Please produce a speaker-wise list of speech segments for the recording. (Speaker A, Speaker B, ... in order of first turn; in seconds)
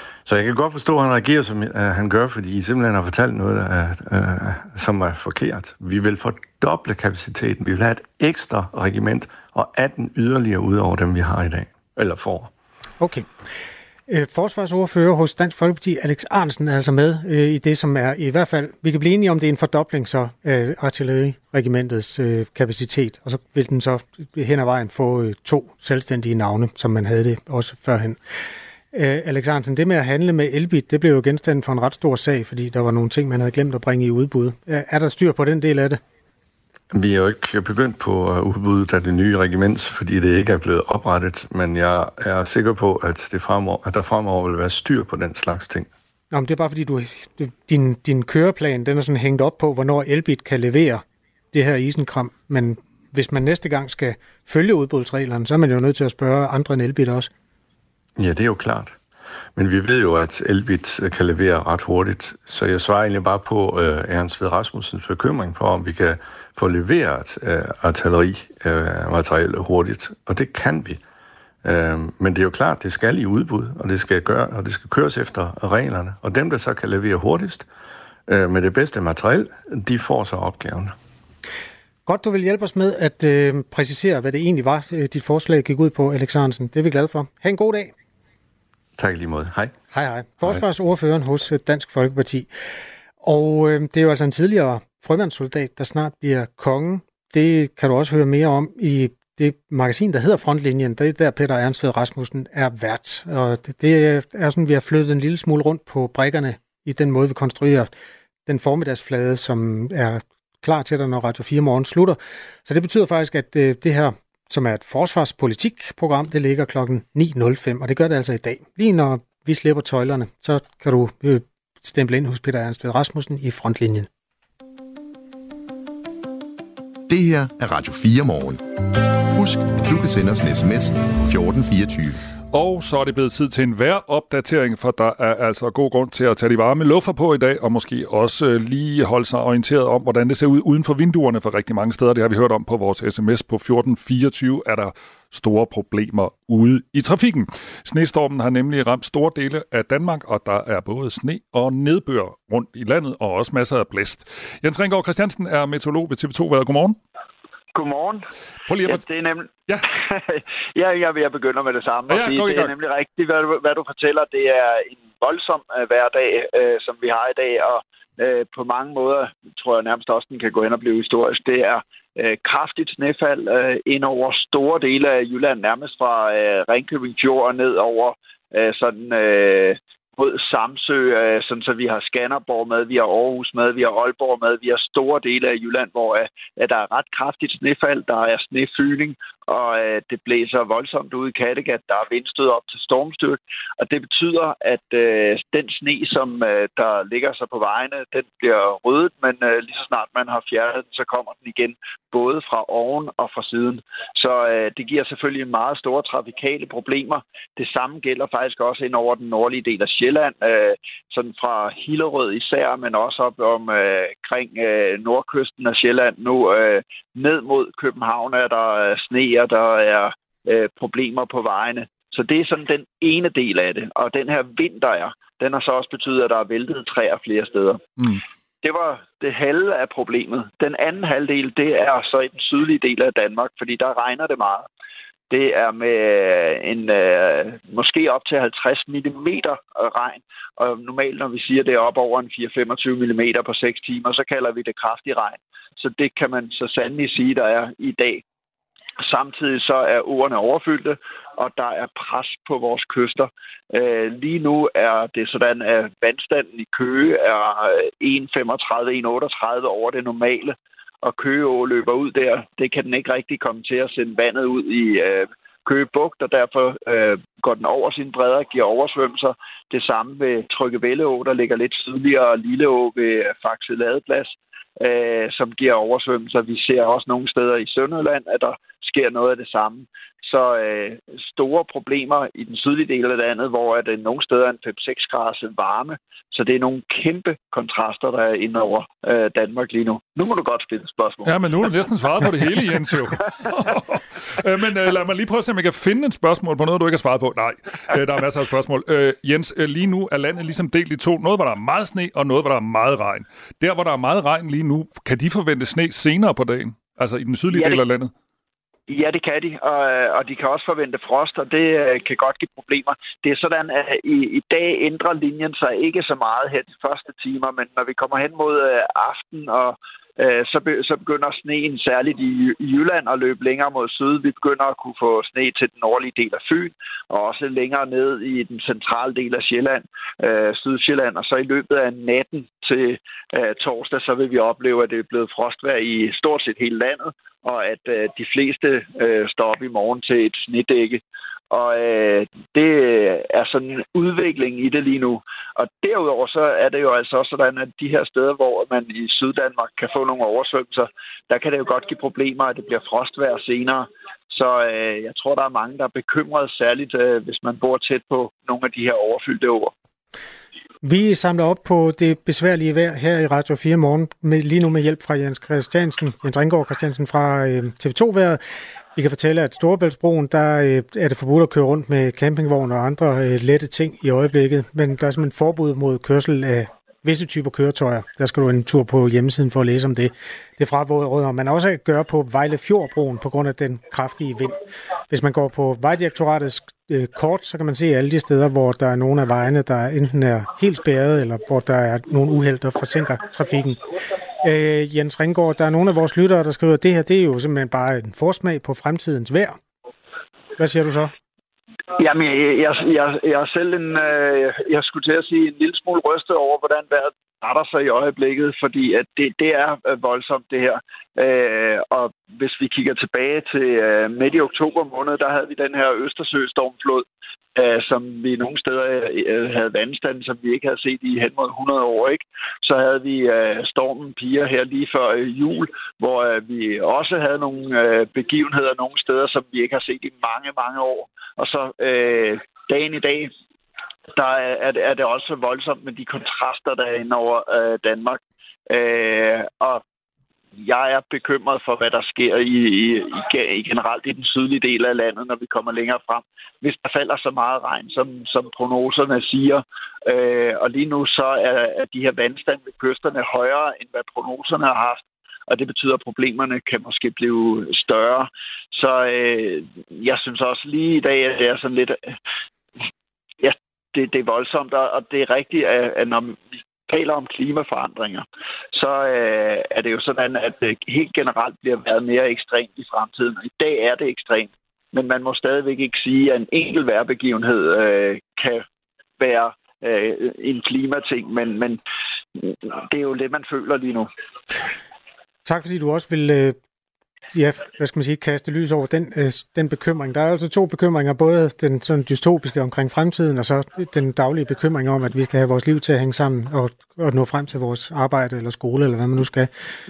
Speaker A: 0.2-12.5, 36.9-45.9, 58.2-59.0, 59.5-71.0, 71.6-77.7, 78.3-81.0, 89.0-89.7
Speaker B: 13.0-13.3, 14.1-28.2, 28.9-36.0, 46.3-57.3, 82.1-87.9, 89.9-92.5, 93.2-107.9, 108.5-124.1, 360.8-368.4, 369.0-384.6, 385.1-393.9, 394.4-399.6, 400.6-401.1, 485.4-486.6, 487.3-499.5
Speaker C: 127.1-128.6, 129.3-132.2
Speaker D: 132.5-157.0, 158.7-159.0, 162.1-162.7, 291.2-308.1
Speaker E: 157.8-158.2, 158.9-227.9, 228.6-234.7, 235.3-248.2, 249.0-292.3, 307.5-307.8, 308.9-359.7, 402.0-433.3, 434.1-439.8, 440.6-462.0, 463.4-478.6, 479.2-481.8, 482.4-484.1